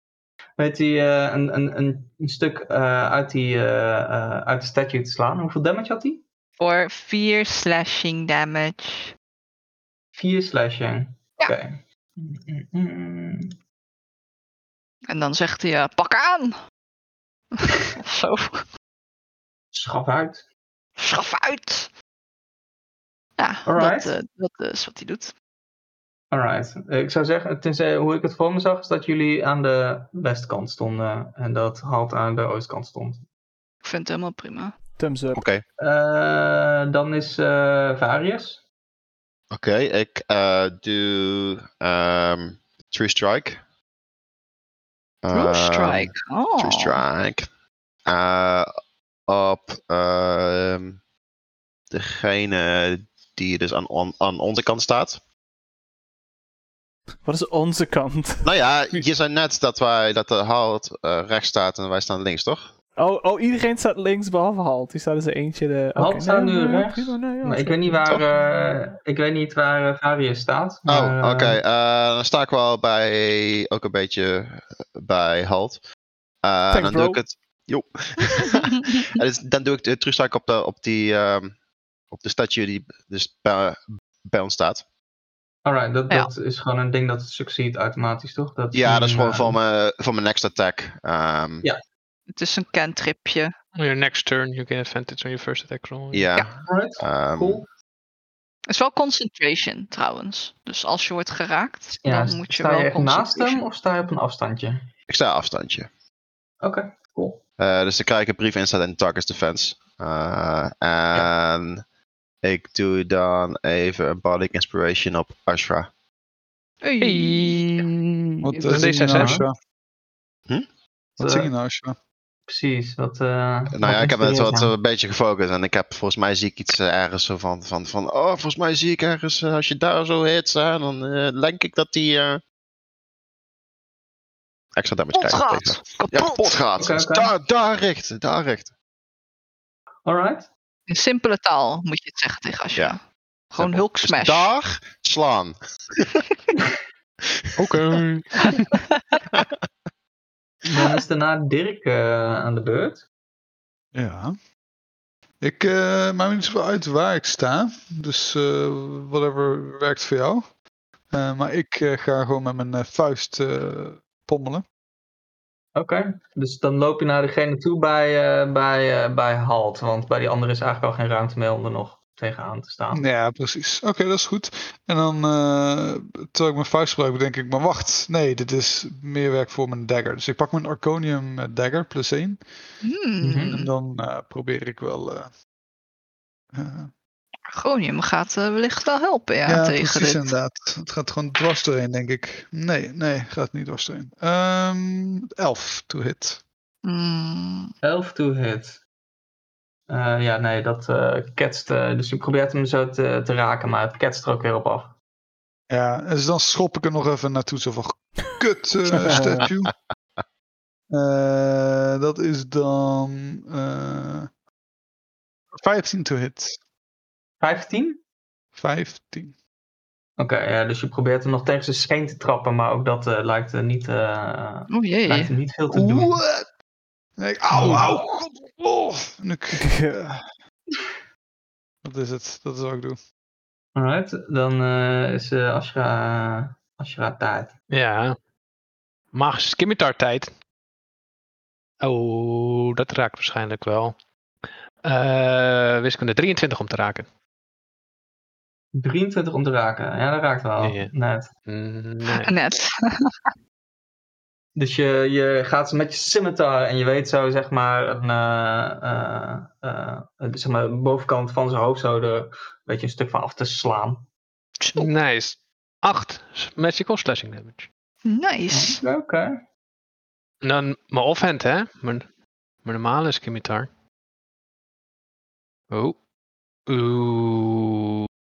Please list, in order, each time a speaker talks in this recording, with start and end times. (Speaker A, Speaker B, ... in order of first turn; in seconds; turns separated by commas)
Speaker A: 0.6-6.2, Speaker B: 6.6-9.1, Speaker A: 10.1-13.5, Speaker B: 15.1-16.5, Speaker B: 17.5-18.6, Speaker A: 19.7-20.5, Speaker B: 21.0-21.9, Speaker B: 23.4-25.3, Speaker A: 23.7-24.1, Speaker A: 26.3-33.2, Speaker B: 33.8-34.8, Speaker C: 35.0-35.5, Speaker D: 35.4-35.6, Speaker A: 35.8-38.6, Speaker D: 39.5-43.6, Speaker D: 45.2-47.5, Speaker B: 45.3-47.0, Speaker D: 48.1-48.7, Speaker D: 49.3-51.0, Speaker D: 51.9-55.2, Speaker C: 57.2-59.0, Speaker D: 58.5-62.7, Speaker C: 63.0-68.6, Speaker A: 66.0-71.6, Speaker D: 70.9-75.8, Speaker D: 76.4-81.5, Speaker C: 76.7-77.2, Speaker B: 78.5-79.0, Speaker D: 82.1-84.8, Speaker A: 85.7-89.6, Speaker D: 88.7-91.7, Speaker B: 92.3-93.5, Speaker E: 93.8-96.3, Speaker D: 96.1-97.6, Speaker A: 96.5-97.7, Speaker B: 98.7-103.6, Speaker A: 102.0-104.8, Speaker D: 105.1-105.9, Speaker A: 106.6-107.4, Speaker D: 107.6-111.8, Speaker D: 112.4-115.9, Speaker B: 116.8-117.9, Speaker E: 117.0-117.9, Speaker F: 118.4-119.5, Speaker B: 118.5-118.8, Speaker E: 118.6-119.4, Speaker A: 119.1-119.5, Speaker F: 121.2-122.0, Speaker A: 121.2-121.5, Speaker A: 122.5-124.7, Speaker D: 123.7-132.4, Speaker D: 134.8-138.7, Speaker B: 135.1-136.6, Speaker A: 136.8-137.3, Speaker A: 140.1-140.5, Speaker B: 140.9-143.0, Speaker B: 143.5-144.5, Speaker D: 143.6-146.2, Speaker E: 147.6-148.6, Speaker A: 150.7-153.1, Speaker F: 153.9-154.3, Speaker F: 155.4-160.4, Speaker F: 161.1-164.7, Speaker A: 165.8-173.0, Speaker F: 172.9-182.4, Speaker B: 182.8-183.7, Speaker A: 183.2-183.6, Speaker F: 183.4-185.3, Speaker F: 186.5-186.9, Speaker B: 187.5-190.3, Speaker F: 189.5-196.4, Speaker B: 196.8-197.7, Speaker A: 197.8-198.8, Speaker A: 199.9-204.9, Speaker F: 205.7-209.7, Speaker C: 209.0-209.5, Speaker F: 210.9-214.3, Speaker F: 215.5-216.6, Speaker A: 217.4-218.0, Speaker F: 218.6-219.3, Speaker A: 220.2-226.2, Speaker B: 224.7-225.3, Speaker F: 225.7-226.5, Speaker F: 227.2-230.2, Speaker A: 227.6-227.8, Speaker C: 229.5-230.1, Speaker F: 231.8-233.0, Speaker A: 233.8-237.6, Speaker E: 237.7-238.2, Speaker E: 239.1-240.3, Speaker E: 241.8-244.0, Speaker E: 244.8-247.1, Speaker A: 248.7-251.3, Speaker E: 250.6-250.9, Speaker E: 251.5-252.3, Speaker B: 252.1-253.1, Speaker A: 254.6-264.1, Speaker B: 264.6-264.9, Speaker E: 264.8-267.7, Speaker B: 268.1-268.8, Speaker A: 268.5-269.3, Speaker E: 270.4-272.1, Speaker E: 272.6-273.7, Speaker E: 275.7-276.0, Speaker E: 276.7-277.8